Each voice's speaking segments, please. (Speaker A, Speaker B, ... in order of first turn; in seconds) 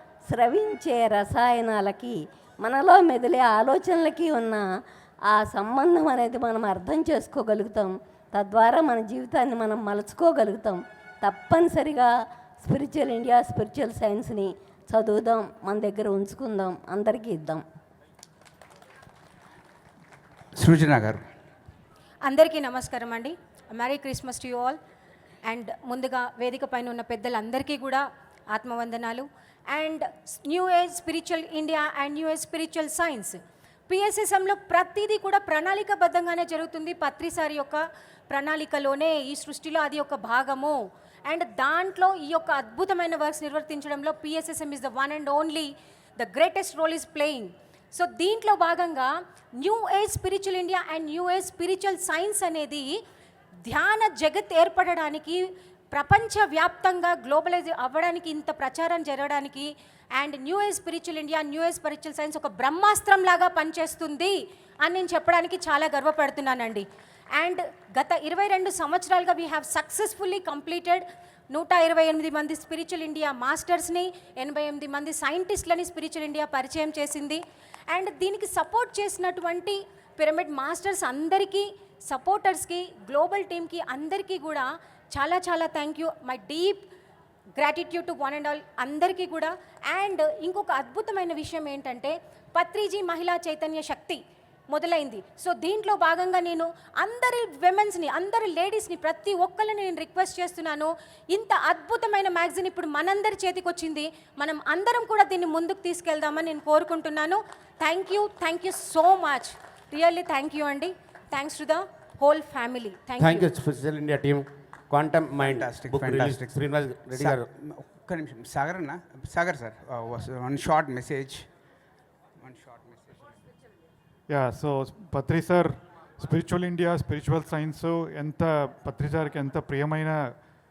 Speaker A: 0.3-4.6, 5.3-17.6
Speaker B: 20.6-21.2, 115.4-116.5, 117.2-121.5, 122.4-123.2
Speaker C: 22.2-24.8, 25.4-53.0, 53.6-86.8, 87.6-113.5
Speaker D: 113.2-117.5
Speaker E: 124.3-130.2